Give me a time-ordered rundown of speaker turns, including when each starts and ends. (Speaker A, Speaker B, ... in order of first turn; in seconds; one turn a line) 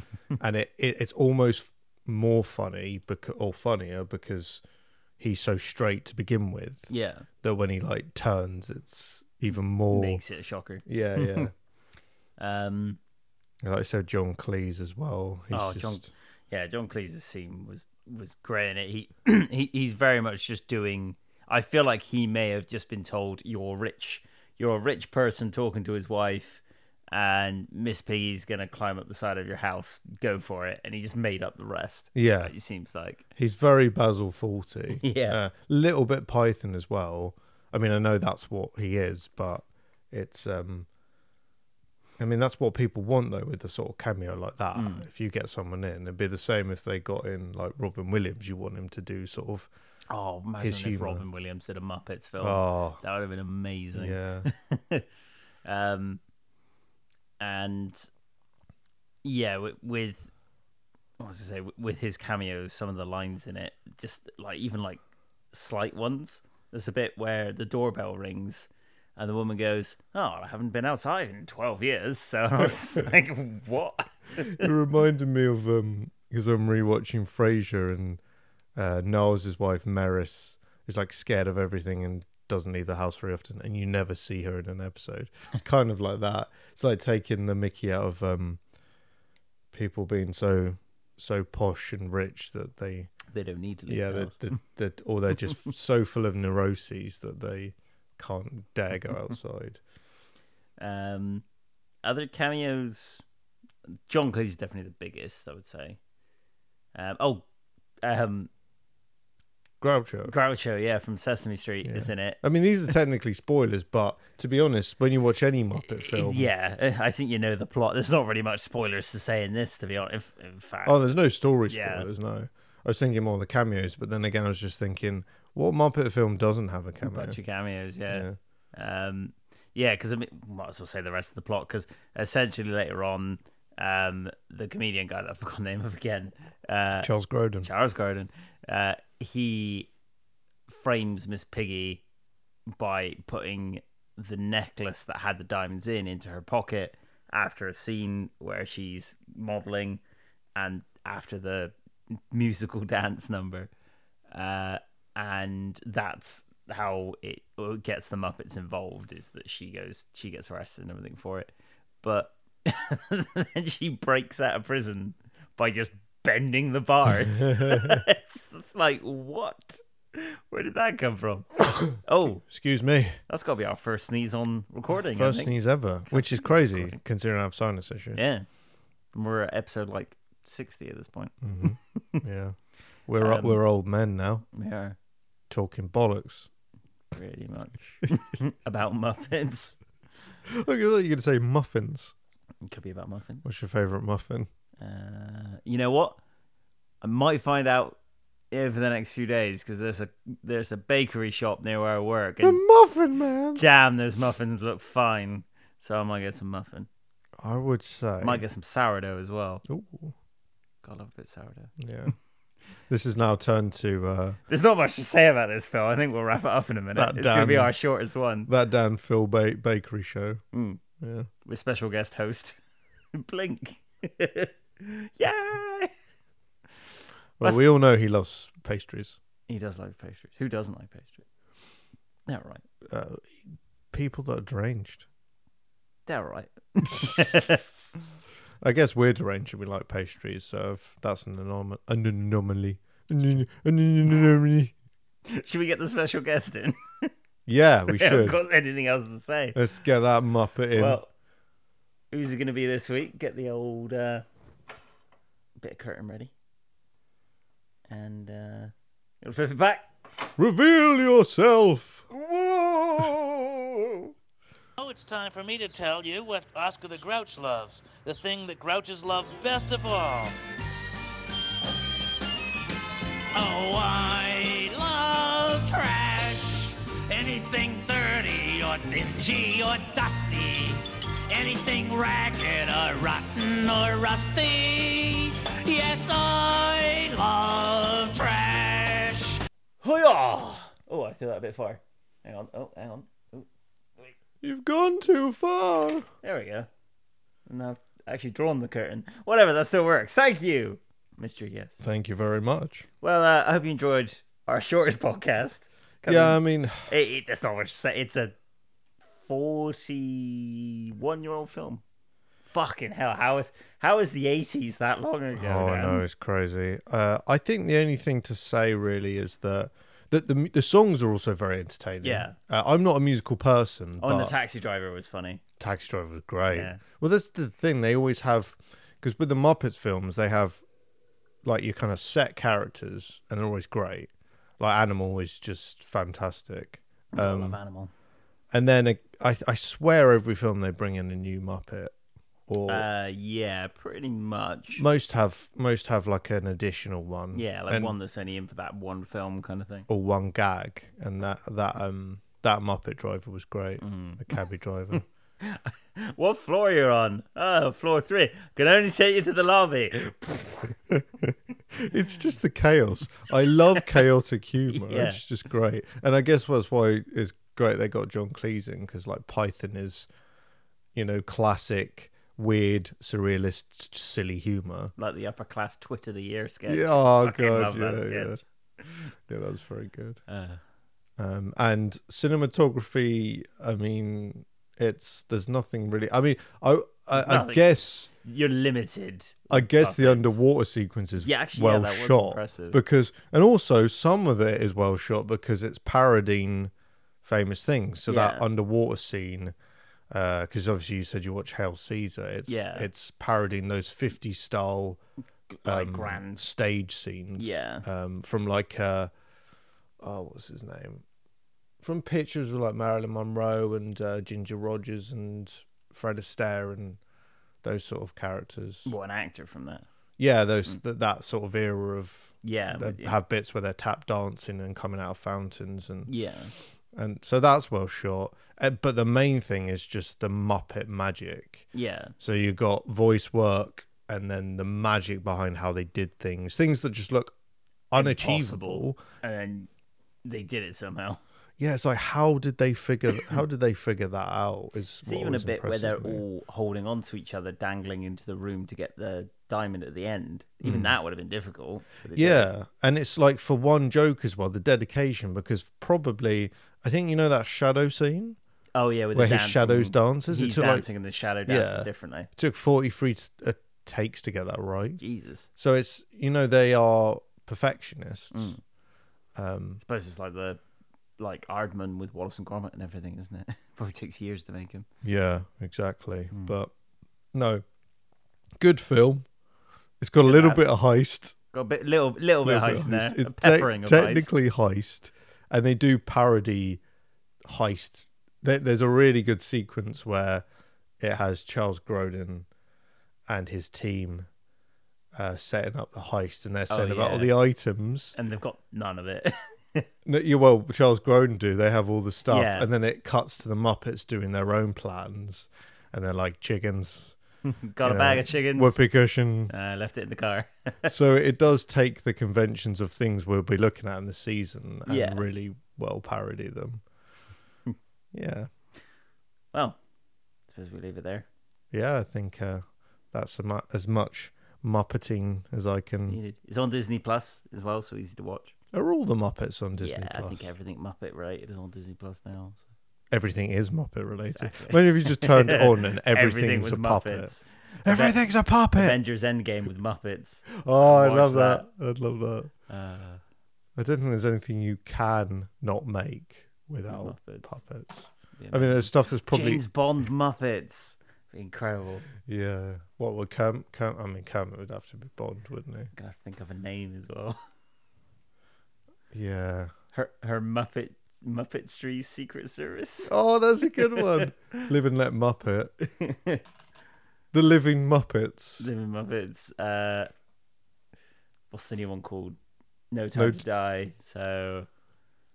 Speaker A: 0.4-4.6
Speaker A: 5.2-6.9
Speaker B: 6.9-7.3
Speaker A: 7.4-10.2
Speaker B: 9.9-11.5
Speaker A: 10.8-11.5
Speaker B: 12.4-13.0
Speaker A: 13.6-16.1
Speaker B: 15.5-33.2
Speaker A: 32.1-32.5
Speaker A: 33.4-40.9
Speaker B: 35.0-35.4
Speaker A: 42.2-49.7
Speaker B: 44.8-45.0
Speaker B: 50.1-55.1
Speaker A: 50.6-51.2
Speaker A: 52.4-53.0
Speaker A: 53.9-54.5
Speaker B: 55.6-56.2
Speaker B: 57.4-58.1
Speaker B: 59.2-60.3
Speaker B: 61.2-74.7
Speaker A: 74.5-78.2
Speaker A: 78.8-88.6
Speaker A: 89.7-93.1
Speaker B: 93.3-94.5
Speaker A: 93.9-99.8
Speaker B: 100.8-101.5
Speaker B: 102.0-103.2
Speaker B: 104.1-106.0
Speaker B: 107.0-107.5
Speaker B: 108.0-108.5
Speaker A: 109.8-110.3
Speaker B: 110.3-112.4
Speaker A: 111.8-116.5
Speaker B: 115.9-121.1
Speaker A: 120.8-127.4
Speaker B: 121.7-122.1
Speaker B: 127.0-137.1
Speaker A: 128.1-128.4
Speaker A: 137.0-137.7
Speaker B: 137.6-139.9
Speaker B: 140.7-142.0
Speaker B: 142.8-150.0
Speaker B: 150.6-153.7
Speaker B: 154.3-161.5
Speaker B: 162.0-172.4
Speaker A: 167.2-168.0
Speaker A: 172.4-173.2
Speaker B: 173.3-175.6
Speaker A: 175.0-178.2
Speaker B: 176.1-177.0
Speaker B: 178.2-178.5
Speaker B: 179.1-182.2
Speaker A: 181.4-184.4
Speaker B: 183.2-183.6
Speaker B: 184.5-185.0
Speaker A: 185.5-186.5
Speaker B: 187.1-189.8
Speaker A: 190.5-192.1
Speaker B: 192.6-193.4
Speaker A: 193.4-194.5
Speaker B: 194.8-196.2
Speaker B: 197.0-198.0
Speaker B: 198.5-202.6
Speaker A: 202.4-203.6
Speaker B: 203.6-206.9
Speaker A: 207.4-208.4
Speaker B: 208.2-209.6
Speaker A: 209.7-210.1
Speaker B: 210.8-211.7
Speaker A: 211.8-212.1
Speaker A: 212.9-214.4
Speaker B: 214.5-218.5
Speaker A: 216.9-217.7
Speaker A: 218.5-220.4
Speaker B: 220.5-220.8
Speaker A: 221.0-221.3
Speaker B: 221.4-222.6
Speaker B: 223.1-225.9
Speaker A: 227.4-229.2
Speaker B: 229.5-231.3
Speaker B: 232.3-232.6
Speaker A: 232.9-235.1
Speaker B: 236.1-237.7
Speaker A: 236.9-237.6
Speaker A: 238.6-244.7
Speaker B: 245.3-247.1
Speaker A: 247.5-248.4
Speaker B: 247.9-249.8
Speaker A: 249.5-251.0
Speaker B: 250.8-251.1
Speaker B: 252.1-254.2
Speaker B: 255.6-256.3
Speaker B: 257.9-259.9
Speaker A: 260.4-262.1
Speaker B: 262.2-263.6
Speaker C: 264.8-270.4
Speaker C: 273.3-289.4
Speaker B: 289.8-293.5
Speaker A: 294.4-296.1
Speaker B: 296.2-296.7
Speaker B: 297.5-301.8
Speaker A: 301.8-302.9
Speaker B: 303.0-308.4
Speaker A: 306.1-306.9
Speaker B: 309.2-311.8
Speaker B: 312.5-316.0
Speaker A: 315.4-324.4
Speaker B: 322.0-322.4
Speaker B: 324.0-325.4
Speaker A: 325.6-330.6
Speaker B: 326.5-326.8
Speaker A: 331.4-337.6
Speaker B: 337.1-337.9
Speaker A: 338.5-341.9
Speaker A: 342.5-342.9
Speaker B: 342.7-344.8
Speaker A: 344.8-347.9
Speaker B: 347.3-349.9
Speaker A: 349.9-355.0
Speaker B: 353.8-354.2
Speaker B: 355.4-360.8
Speaker A: 360.9-370.1
Speaker B: 364.7-365.2
Speaker A: 370.9-374.9
Speaker B: 375.0-378.4
Speaker A: 376.7-380.2
Speaker B: 380.3-380.6
Speaker A: 381.2-388.1
Speaker B: 387.1-390.4
Speaker A: 389.5-396.7
Speaker B: 391.2-392.8
Speaker A: 397.2-399.6
Speaker B: 398.1-398.5
Speaker A: 400.1-405.0
Speaker B: 402.5-402.9
Speaker B: 405.5-406.5
Speaker A: 405.6-409.1
Speaker B: 407.4-407.9
Speaker A: 410.0-411.0
Speaker A: 411.8-417.0
Speaker A: 417.6-418.9
Speaker B: 418.9-419.9
Speaker A: 420.2-426.1
Speaker B: 422.4-423.2
Speaker B: 426.1-426.5
Speaker A: 426.9-431.6
Speaker B: 431.7-432.1
Speaker A: 432.2-437.4
Speaker A: 437.9-439.0
Speaker B: 437.9-439.7
Speaker B: 440.2-441.2
Speaker A: 441.6-446.2
Speaker B: 445.1-452.5
Speaker A: 450.6-450.9
Speaker A: 452.1-458.4
Speaker B: 458.8-462.3
Speaker A: 459.1-460.9
Speaker A: 461.5-465.0
Speaker B: 465.0-465.5
Speaker A: 465.6-468.6
Speaker B: 468.3-468.6
Speaker A: 469.4-469.8
Speaker B: 469.8-470.6
Speaker B: 471.2-474.9
Speaker A: 475.0-476.7
Speaker A: 477.3-477.6
Speaker A: 478.6-479.3
Speaker A: 480.0-481.4
Speaker B: 480.2-480.6
Speaker B: 481.5-484.3
Speaker A: 482.4-486.8
Speaker A: 487.5-490.4
Speaker A: 491.0-492.5
Speaker A: 493.3-494.3
Speaker A: 495.2-498.2
Speaker B: 496.7-497.3
Speaker B: 498.2-499.9
Speaker A: 500.1-507.2
Speaker B: 502.3-502.7
Speaker B: 507.4-508.8
Speaker A: 507.8-509.5
Speaker B: 509.5-510.9
Speaker A: 510.9-516.8
Speaker B: 514.9-515.2
Speaker A: 518.1-518.5
Speaker B: 519.5-519.8
Speaker B: 520.5-521.3
Speaker A: 521.7-526.2
Speaker B: 526.0-528.5
Speaker A: 528.7-530.5
Speaker B: 529.8-532.6
Speaker A: 533.1-539.0
Speaker B: 534.2-538.2
Speaker B: 538.7-541.7
Speaker A: 540.5-542.5
Speaker B: 542.7-543.2
Speaker A: 543.8-549.6
Speaker B: 546.9-547.5
Speaker B: 548.4-552.1
Speaker A: 552.2-555.9
Speaker B: 555.9-557.4
Speaker A: 559.1-559.7
Speaker B: 559.9-563.1
Speaker A: 563.1-565.7
Speaker B: 563.8-564.3
Speaker B: 565.8-566.4
Speaker A: 567.3-568.7
Speaker B: 568.6-570.1
Speaker B: 571.5-572.4
Speaker B: 572.9-574.7
Speaker A: 573.1-573.4